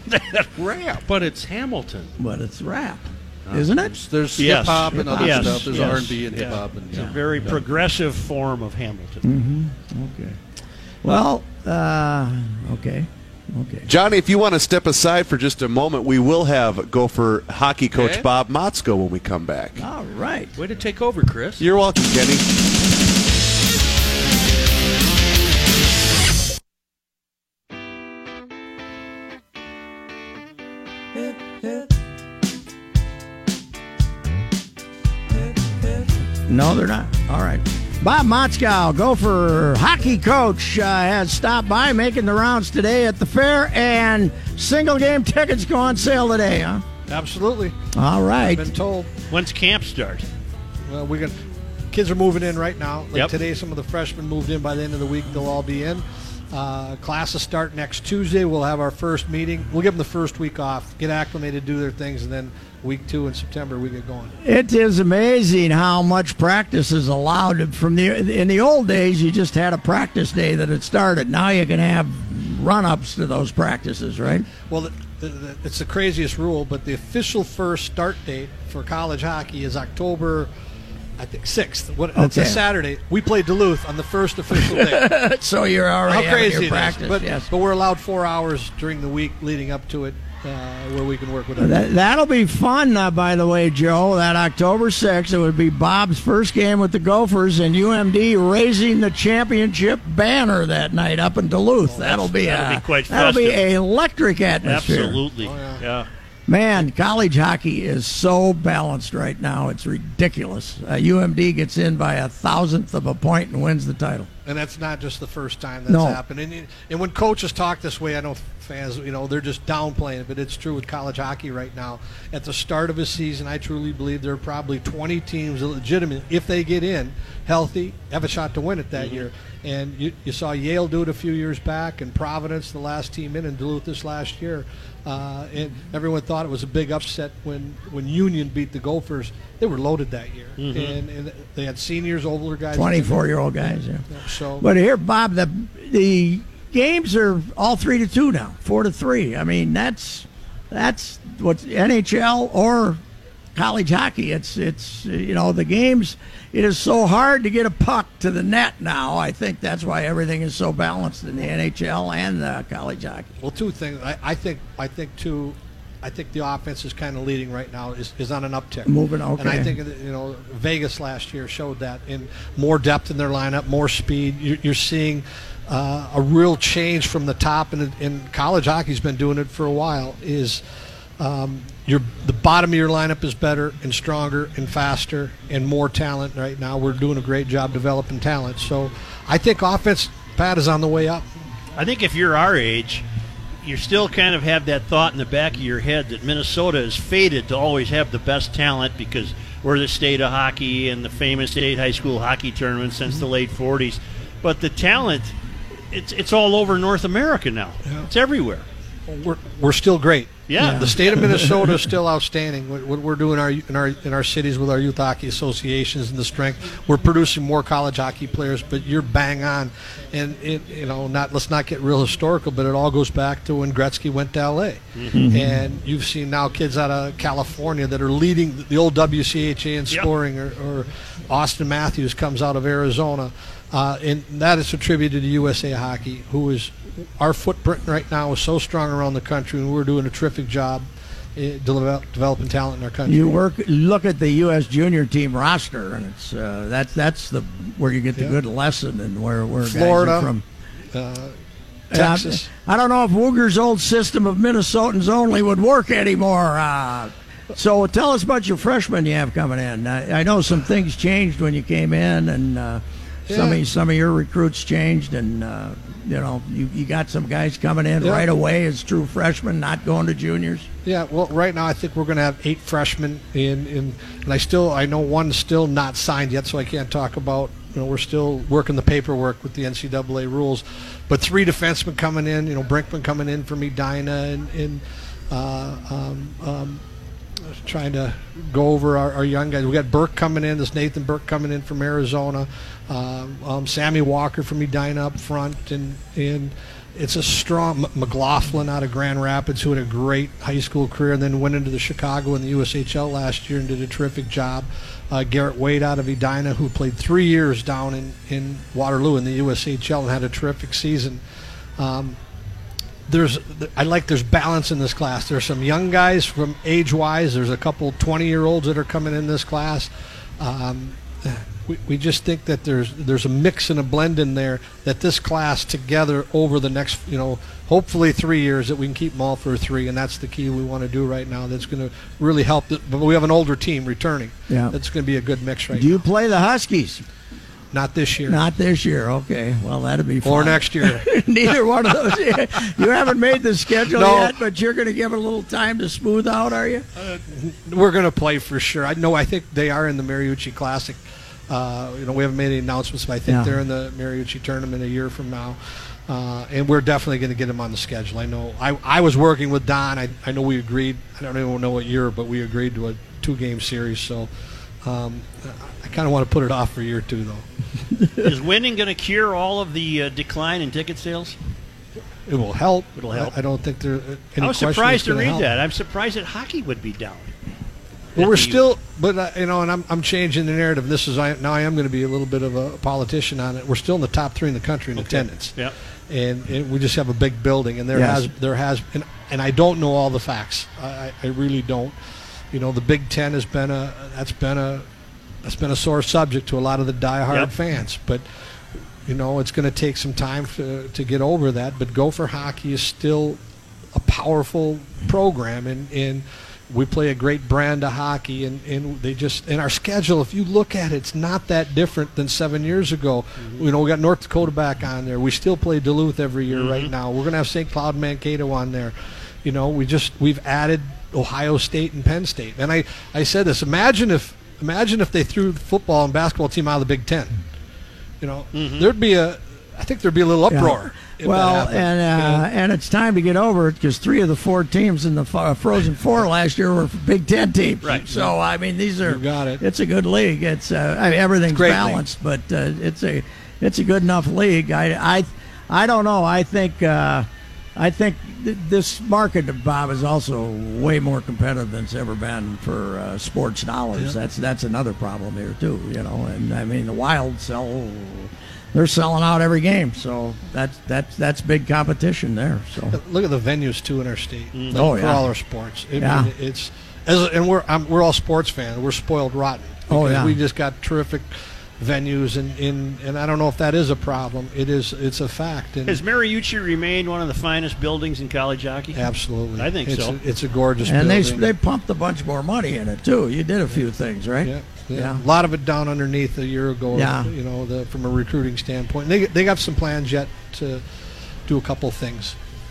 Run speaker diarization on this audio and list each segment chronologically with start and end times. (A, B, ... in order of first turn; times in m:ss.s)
0:00.1-0:01.0 A
0:01.1-0:02.1 B
0:02.2-0:04.0 C
0:03.6-0:07.6 A
0:04.4-0:09.3 D
0:04.9-0:06.2 C
0:09.2-0:10.4 C
0:11.0-0:13.9 C
0:13.9-0:19.8 E
0:19.8-0:20.6 C
0:20.6-0:21.7 B
0:21.6-0:22.5 E
0:36.5-0:46.8 C
0:47.1-0:47.9 F
0:47.9-0:48.7 C
0:48.4-0:49.1 F
0:49.3-0:50.3 D
0:50.9-0:51.4 F
0:51.9-1:04.4 F
1:04.4-1:14.5 C
1:14.6-1:20.5 F
1:21.2-1:25.2 F
1:22.2-1:22.6 C
1:24.6-1:27.5 C
1:26.0-1:31.9 F
1:31.6-1:45.2 C
1:42.0-1:43.6 D
1:44.6-1:46.1 D
1:45.4-1:45.8 F
1:46.5-1:54.3 C
1:54.4-2:24.7 F
1:55.9-1:56.2 C
2:20.6-2:21.0 D
2:22.7-2:24.1 C
2:24.6-2:33.0 C
2:33.6-2:43.3 C
2:43.4-3:00.6 F
2:48.9-2:49.7 C
3:01.2-3:11.3 F
3:11.8-3:13.1 D
3:13.6-3:25.3 D
3:25.9-3:28.7 D
3:27.9-3:28.1 F
3:29.1-4:03.4 F
3:30.5-3:31.1 D
3:30.6-3:31.7 C
3:45.0-3:45.3 D
3:45.1-3:45.6 C
4:03.1-4:10.4 C
4:09.6-4:10.4 F
4:10.9-4:11.4 F
4:11.9-4:12.5 F
4:11.9-4:30.7 C
4:23.3-4:23.6 F
4:28.0-4:28.3 F
4:30.8-4:46.8 F
4:47.5-5:11.2 F
5:11.8-5:12.2 F
5:13.1-5:36.0 F
5:34.5-5:34.8 C
5:35.7-5:37.0 C
5:37.7-5:38.4 F
5:38.3-5:46.8 C
5:40.2-5:41.6 F
5:43.8-5:44.4 F
5:47.1-6:04.3 F
5:53.3-5:53.5 C
6:04.8-6:07.4 F
6:08.2-6:11.4 D
6:12.3-6:15.5 F
6:13.0-6:13.3 D
6:14.4-6:17.3 D
6:18.2-6:25.6 F
6:18.2-6:18.7 D
6:25.0-6:25.7 D
6:26.1-6:32.0 F
6:27.9-6:28.3 C
6:32.5-6:34.9 F
6:35.4-6:38.2 F
6:39.1-6:43.4 F
6:44.0-7:07.4 F
6:56.5-6:56.9 D
7:08.2-7:12.5 F
7:08.5-7:08.9 D
7:10.5-7:43.0 C
7:17.8-7:18.1 D
7:17.9-7:18.4 F
7:19.0-7:19.6 F
7:21.5-7:22.0 F
7:42.9-7:56.0 F
7:44.5-7:44.9 D
7:44.7-7:45.3 C
7:46.0-7:46.3 C
7:49.9-7:50.4 C
7:55.9-7:59.0 D
7:58.9-8:01.5 F
7:59.6-8:00.2 D
8:00.8-8:05.2 C
8:04.4-8:10.8 F
8:06.9-8:07.3 C
8:11.5-8:12.4 F